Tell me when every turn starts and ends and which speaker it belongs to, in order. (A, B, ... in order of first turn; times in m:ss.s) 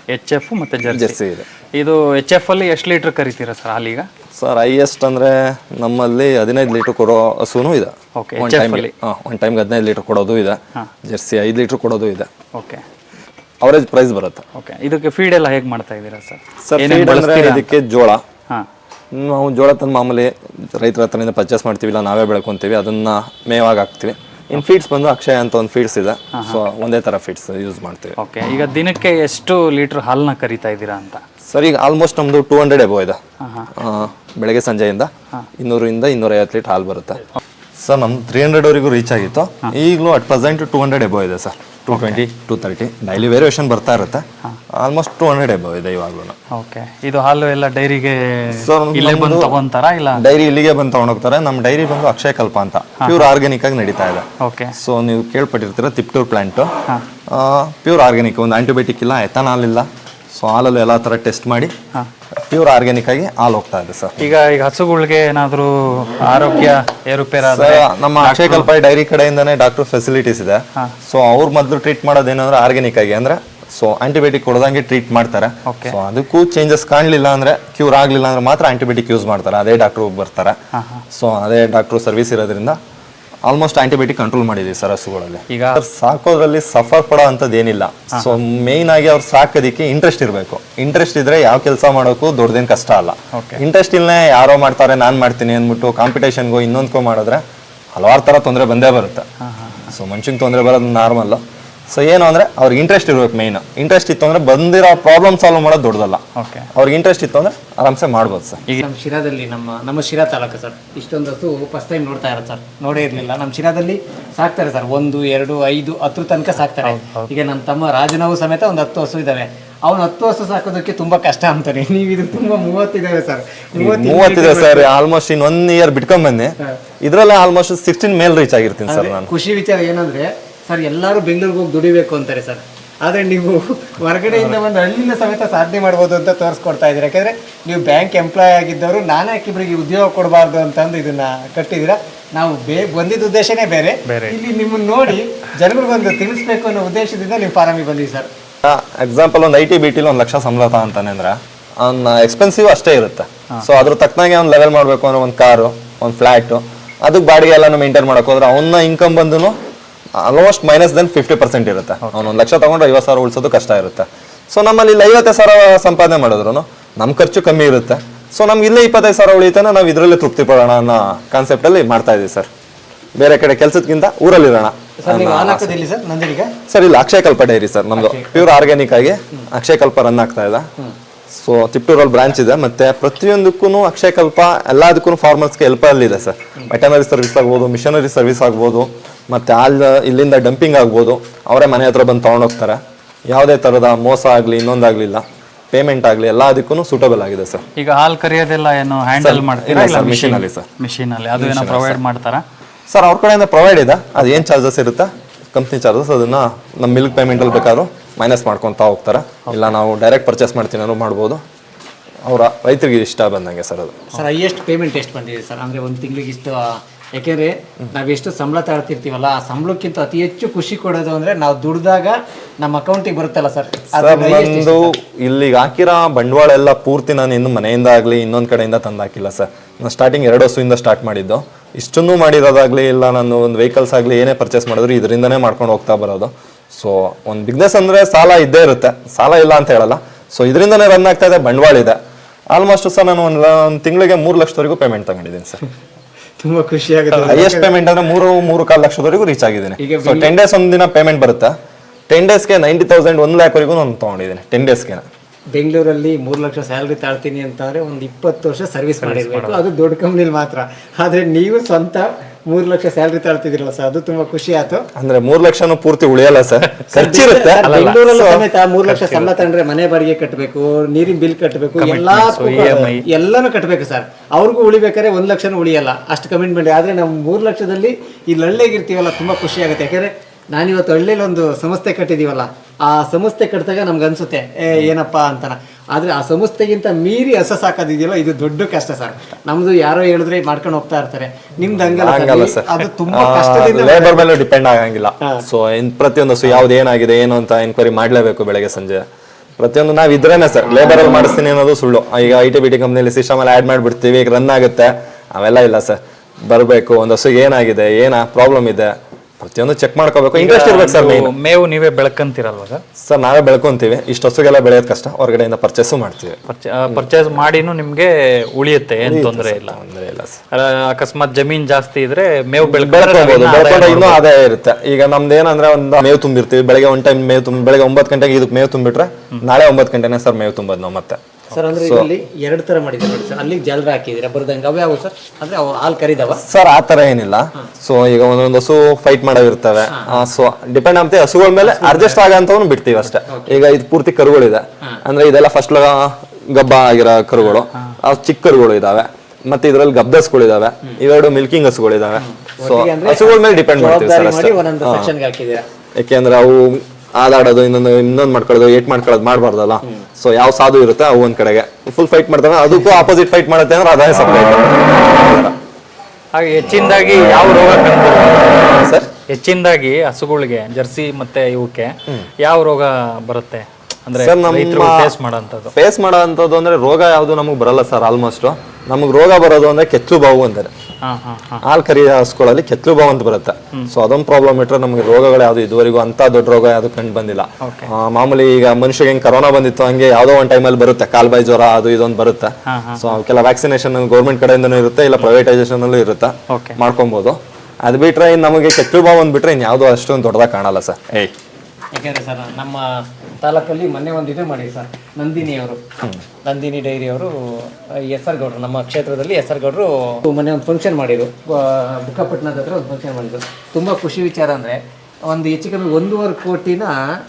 0:00.1-0:01.2 A
0:00.8-0:01.4 B
0:01.7-0:04.1 A
0:04.4-0:12.3 B
0:08.2-0:08.9 A
0:12.5-0:12.8 A
0:13.6-0:14.4 B
0:14.5-0:17.7 A
0:16.6-0:18.2 B
0:19.1-0:28.2 B
0:26.3-0:26.6 A
0:28.2-0:31.2 A
0:31.5-0:33.2 B
0:33.4-0:33.7 A
0:33.7-0:37.2 B
0:37.8-0:46.4 B
0:41.9-0:42.2 A
0:46.5-0:50.2 A
0:48.5-0:49.6 B
0:50.1-0:56.7 B
0:53.0-0:53.3 A
0:54.4-0:54.8 A
0:57.3-1:01.7 B
1:02.5-1:04.2 B
1:04.2-1:08.7 A
1:07.4-1:20.6 B
1:15.7-1:16.0 A
1:20.7-1:21.0 A
1:21.1-1:22.8 B
1:23.4-1:37.4 B
1:25.5-1:25.8 A
1:33.3-1:33.6 A
1:37.9-1:39.2 B
1:39.4-1:39.9 A
1:39.9-1:46.2 B
1:46.4-1:46.7 A
1:46.7-1:48.6 B
1:48.8-2:04.9 C
1:56.8-1:57.3 A
2:03.8-2:09.3 B
2:08.9-2:28.3 C
2:24.1-2:24.4 A
2:28.6-2:39.6 B
2:40.2-2:52.5 B
2:42.0-2:42.3 A
2:53.2-2:55.8 B
2:55.0-2:56.5 C
2:56.7-3:00.7 B
2:58.0-2:58.6 C
3:01.3-3:17.6 B
3:17.8-3:22.4 A
3:19.2-3:20.6 B
3:21.4-3:22.0 B
3:22.9-3:31.4 B
3:32.2-3:34.1 B
3:34.1-3:44.9 C
3:43.9-4:02.0 B
4:02.5-4:05.6 B
4:06.4-4:07.7 C
4:07.2-4:11.6 B
4:09.8-4:10.3 C
4:12.1-4:15.0 B
4:15.5-4:24.8 C
4:19.0-4:19.6 A
4:25.0-4:28.4 B
4:26.9-4:54.3 C
4:27.6-4:29.4 A
4:31.8-4:33.0 A
4:51.9-4:59.0 B
4:59.6-5:11.3 B
5:10.3-5:12.8 A
5:13.0-5:17.0 B
5:16.5-5:19.8 A
5:19.0-5:20.4 B
5:20.5-5:24.3 A
5:22.6-5:31.2 B
5:31.5-5:36.4 C
5:31.8-5:32.1 B
5:36.3-5:55.1 B
5:41.8-5:42.2 C
5:52.4-5:55.6 C
5:55.9-6:05.5 B
6:06.3-6:15.7 A
6:08.6-6:09.1 B
6:14.2-6:15.1 B
6:15.7-6:20.7 B
6:21.0-6:21.6 A
6:21.6-6:41.3 B
6:27.6-6:27.9 A
6:32.6-6:33.0 A
6:36.5-6:36.8 A
6:41.9-6:42.8 C
6:43.4-6:45.8 C
6:46.4-6:56.9 C